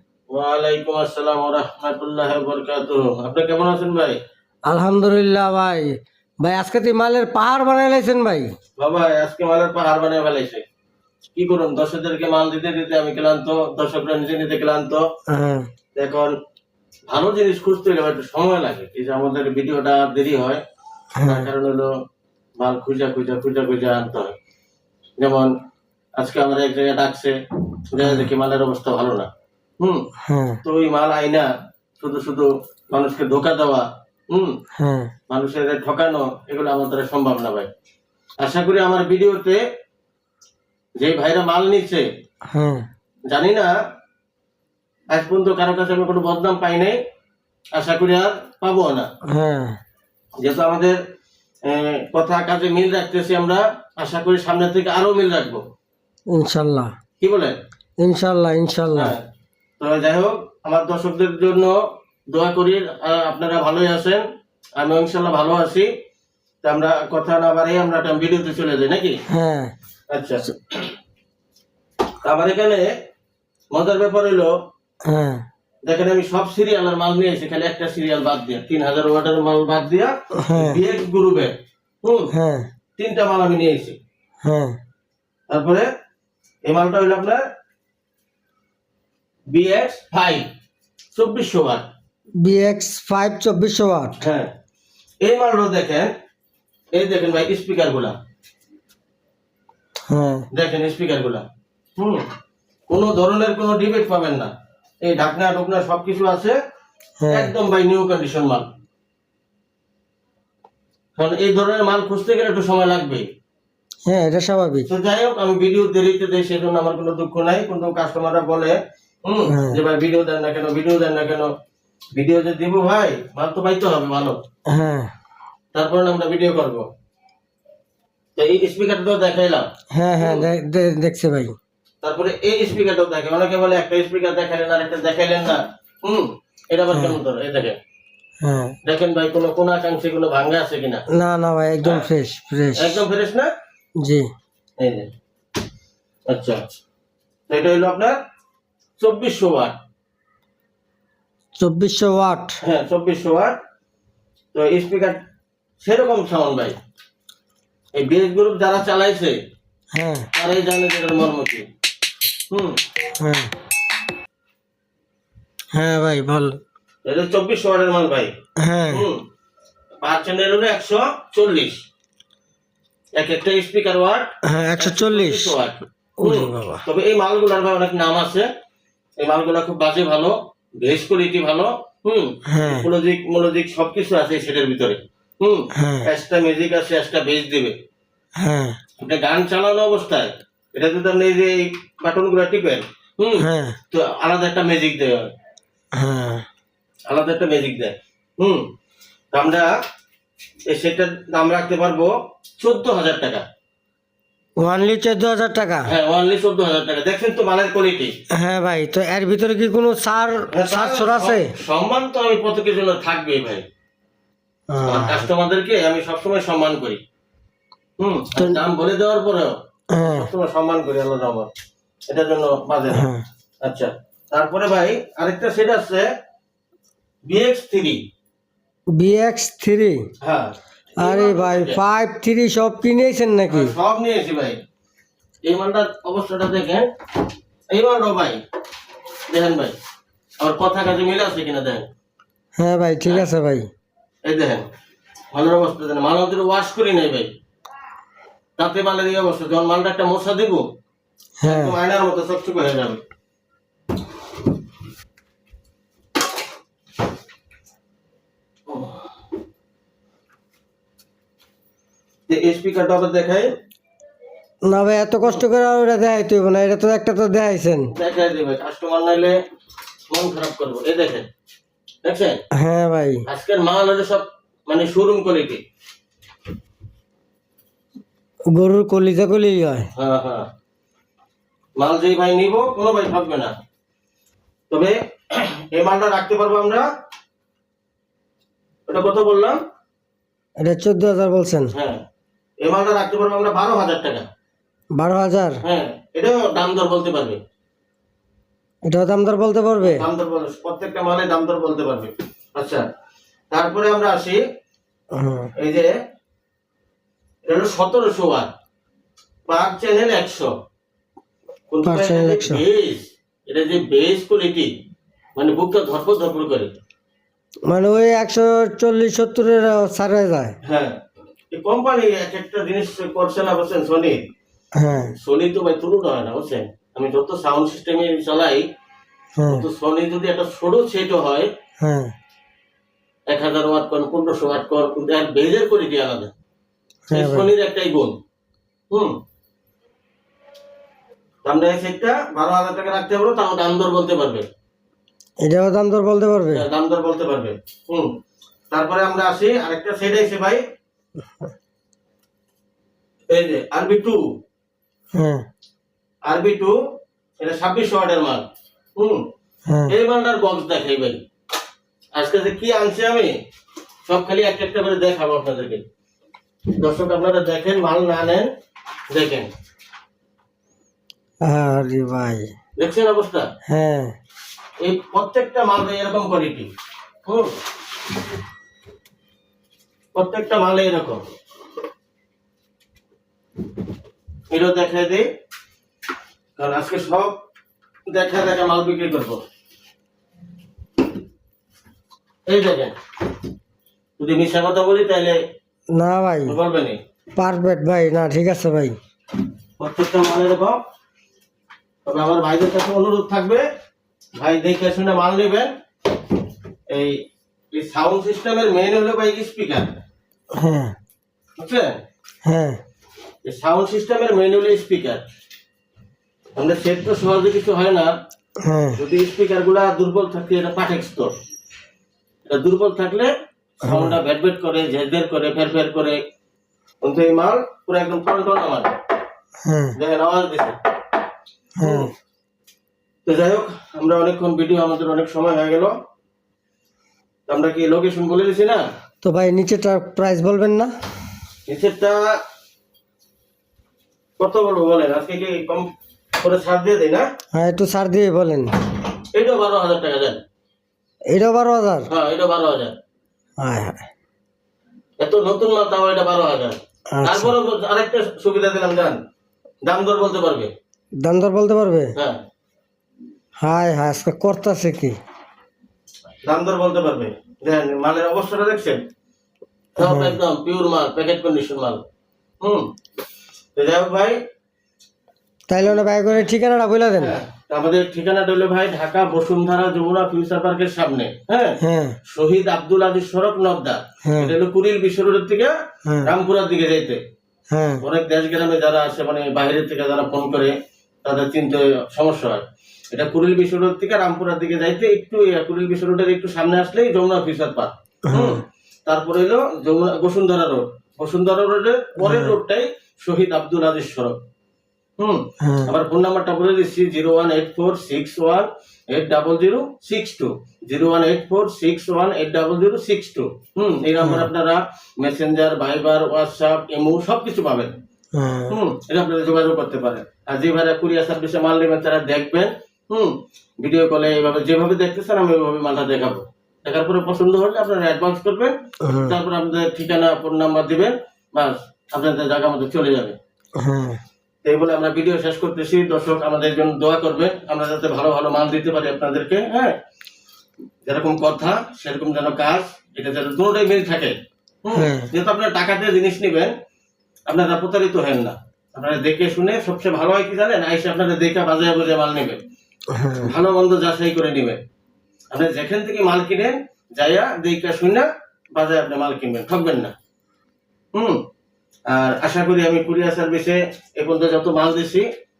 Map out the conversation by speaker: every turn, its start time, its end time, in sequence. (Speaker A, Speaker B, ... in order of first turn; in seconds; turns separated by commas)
Speaker A: 0.3-4.2, Speaker B: 4.7-8.5, Speaker A: 8.8-10.6, Speaker A: 11.4-15.1, Speaker B: 15.3-15.7, Speaker A: 16.0-16.3, Speaker A: 17.1-20.6, Speaker B: 21.2-21.5, Speaker A: 21.2-21.9, Speaker A: 22.6-24.4, Speaker A: 25.2-25.5, Speaker A: 26.2-27.3, Speaker A: 27.9-29.3, Speaker B: 28.0-28.3, Speaker B: 30.3-30.6, Speaker A: 30.6-31.5, Speaker A: 32.0-34.5, Speaker B: 34.8-35.1, Speaker A: 35.3-37.7, Speaker A: 38.4-39.6, Speaker A: 41.0-42.1, Speaker B: 42.5-42.9, Speaker A: 43.3-43.7, Speaker A: 45.1-47.0, Speaker A: 47.8-49.1, Speaker B: 49.3-49.8, Speaker A: 50.4-51.0, Speaker A: 51.7-55.6, Speaker B: 56.3-56.9, Speaker A: 57.2-57.6, Speaker B: 58.0-59.1, Speaker A: 59.0-59.2, Speaker A: 59.8-61.8, Speaker A: 62.3-64.2, Speaker A: 64.8-65.9, Speaker A: 66.6-69.2, Speaker B: 69.3-69.7, Speaker A: 70.1-70.9, Speaker A: 72.2-72.9, Speaker A: 73.7-74.5, Speaker B: 75.1-75.4, Speaker A: 75.8-82.3, Speaker B: 80.4-80.8, Speaker B: 82.3-82.7, Speaker A: 83.0-84.0, Speaker B: 84.4-84.8, Speaker A: 85.5-85.9, Speaker A: 86.7-87.4, Speaker A: 89.5-90.5, Speaker A: 91.2-91.8, Speaker B: 92.4-94.2, Speaker A: 94.2-94.5, Speaker A: 95.2-96.1, Speaker A: 96.9-98.2, Speaker B: 100.1-100.5, Speaker A: 100.5-101.5, Speaker A: 102.0-102.2, Speaker A: 102.9-104.5, Speaker A: 105.0-106.6, Speaker B: 107.2-107.5, Speaker A: 107.3-108.7, Speaker A: 111.2-113.2, Speaker B: 114.1-114.9, Speaker A: 114.9-121.5, Speaker B: 119.5-119.8, Speaker A: 122.2-124.4, Speaker B: 124.7-125.1, Speaker A: 125.7-126.9, Speaker A: 128.4-129.7, Speaker B: 129.9-131.6, Speaker A: 130.2-130.4, Speaker A: 132.0-137.8, Speaker B: 138.4-138.8, Speaker A: 138.8-141.0, Speaker B: 141.2-143.0, Speaker A: 142.8-143.5, Speaker B: 144.0-144.3, Speaker A: 144.8-145.1, Speaker A: 146.3-146.6, Speaker A: 147.5-148.2, Speaker A: 149.0-149.8, Speaker B: 151.6-152.6, Speaker A: 152.6-153.5, Speaker A: 154.5-155.2, Speaker A: 155.8-156.8, Speaker A: 157.9-159.4, Speaker B: 159.9-160.3, Speaker A: 160.3-161.7, Speaker A: 162.5-162.8, Speaker B: 163.2-163.5, Speaker B: 165.7-166.6, Speaker A: 167.1-168.3, Speaker B: 168.6-169.1, Speaker A: 168.9-169.2, Speaker A: 170.0-171.8, Speaker A: 173.2-178.5, Speaker B: 174.5-175.5, Speaker B: 176.2-176.8, Speaker A: 179.2-187.8, Speaker B: 182.5-182.9, Speaker B: 185.8-186.1, Speaker B: 188.4-188.8, Speaker A: 189.0-195.3, Speaker B: 193.4-193.8, Speaker B: 196.0-196.4, Speaker A: 197.1-198.6, Speaker A: 199.3-199.8, Speaker A: 200.7-203.4, Speaker B: 204.6-205.9, Speaker A: 205.9-208.1, Speaker B: 208.3-211.5, Speaker A: 210.5-213.7, Speaker B: 214.7-215.3, Speaker A: 214.8-217.0, Speaker A: 218.0-221.5, Speaker B: 219.9-220.3, Speaker A: 222.1-223.1, Speaker B: 222.9-223.2, Speaker A: 223.6-226.1, Speaker A: 227.3-228.0, Speaker B: 228.9-230.1, Speaker A: 230.2-231.8, Speaker B: 231.0-233.7, Speaker A: 233.5-234.6, Speaker A: 235.4-236.9, Speaker A: 237.7-238.4, Speaker A: 239.3-239.8, Speaker A: 240.4-241.9, Speaker B: 242.6-243.7, Speaker A: 244.3-244.6, Speaker A: 245.3-247.3, Speaker A: 248.6-250.7, Speaker B: 251.4-251.8, Speaker A: 251.5-253.0, Speaker A: 262.3-263.5, Speaker B: 264.7-267.9, Speaker A: 267.9-269.4, Speaker A: 270.1-271.3, Speaker A: 272.0-272.4, Speaker B: 272.6-273.2, Speaker A: 273.3-275.6, Speaker B: 278.5-279.9, Speaker A: 280.0-280.5, Speaker A: 281.8-283.5, Speaker A: 284.7-286.9, Speaker A: 288.9-289.6, Speaker B: 290.6-291.7, Speaker A: 291.7-292.0, Speaker A: 292.6-294.2, Speaker B: 295.0-295.6, Speaker A: 295.6-297.4, Speaker B: 298.9-300.1, Speaker A: 299.8-302.8, Speaker A: 303.5-304.4, Speaker B: 305.1-305.5, Speaker A: 305.6-305.9, Speaker A: 307.5-308.5, Speaker A: 309.5-310.5, Speaker A: 311.7-314.7, Speaker B: 311.8-312.6, Speaker A: 315.4-316.7, Speaker B: 317.7-320.5, Speaker A: 320.7-320.9, Speaker A: 321.5-324.2, Speaker B: 324.8-325.1, Speaker A: 325.1-328.7, Speaker B: 329.4-329.7, Speaker A: 329.5-331.5, Speaker B: 331.8-332.1, Speaker A: 333.3-336.3, Speaker B: 337.1-337.5, Speaker A: 337.1-338.2, Speaker A: 341.4-344.5, Speaker B: 345.4-346.6, Speaker A: 346.5-348.1, Speaker A: 348.7-350.6, Speaker A: 353.3-354.2, Speaker B: 355.1-355.4, Speaker A: 356.3-356.8, Speaker A: 357.4-358.5, Speaker A: 359.0-359.2, Speaker B: 359.7-359.9, Speaker A: 359.9-361.2, Speaker A: 362.1-363.4, Speaker A: 364.1-365.8, Speaker A: 366.8-368.5, Speaker A: 369.1-369.5, Speaker B: 371.5-372.5, Speaker A: 372.8-373.5, Speaker B: 373.7-374.1, Speaker A: 374.8-376.7, Speaker A: 377.3-377.6, Speaker A: 380.1-381.2, Speaker A: 384.5-385.3, Speaker A: 386.6-387.3, Speaker A: 388.1-389.4, Speaker A: 392.5-392.9, Speaker A: 394.2-395.4, Speaker B: 395.9-396.6, Speaker A: 396.5-397.0, Speaker B: 397.4-399.0, Speaker A: 399.8-400.8, Speaker A: 402.1-403.6, Speaker A: 404.4-405.7, Speaker A: 406.9-407.2, Speaker A: 407.7-410.0, Speaker B: 410.6-410.9, Speaker A: 411.6-412.0, Speaker B: 412.5-412.8, Speaker A: 413.4-415.2, Speaker A: 416.6-418.1, Speaker B: 418.6-419.0, Speaker A: 419.0-421.3, Speaker A: 422.5-423.3, Speaker A: 423.8-426.2, Speaker B: 423.9-424.1, Speaker A: 427.0-428.9, Speaker B: 429.6-429.9, Speaker A: 430.0-430.8, Speaker B: 431.8-432.1, Speaker A: 431.8-432.1, Speaker A: 433.3-435.9, Speaker A: 437.5-438.8, Speaker B: 439.2-440.9, Speaker A: 441.7-442.4, Speaker A: 444.4-445.9, Speaker A: 446.4-447.3, Speaker B: 447.5-448.7, Speaker A: 449.3-450.4, Speaker B: 451.3-452.1, Speaker A: 452.1-452.9, Speaker B: 453.6-454.0, Speaker A: 455.2-459.2, Speaker B: 457.1-457.5, Speaker A: 459.8-460.7, Speaker B: 461.2-462.1, Speaker B: 463.6-465.2, Speaker A: 466.4-469.0, Speaker A: 470.0-472.0, Speaker B: 470.0-470.4, Speaker A: 473.8-474.4, Speaker B: 475.7-477.4, Speaker A: 477.2-481.8, Speaker B: 481.8-482.2, Speaker A: 482.3-485.7, Speaker B: 484.3-484.6, Speaker B: 486.1-486.3, Speaker A: 486.2-487.2, Speaker B: 487.7-488.0, Speaker A: 488.0-504.4, Speaker B: 498.3-498.6, Speaker B: 502.2-502.6, Speaker A: 505.2-517.9, Speaker B: 505.6-505.9, Speaker B: 514.2-514.5, Speaker B: 518.4-518.8, Speaker A: 518.7-533.4, Speaker B: 529.0-529.4, Speaker B: 533.8-534.2, Speaker A: 534.6-540.0, Speaker A: 541.1-546.7, Speaker B: 544.9-545.3, Speaker A: 547.5-552.6, Speaker B: 553.1-553.5, Speaker A: 553.4-554.8, Speaker A: 555.5-560.1, Speaker A: 562.1-565.3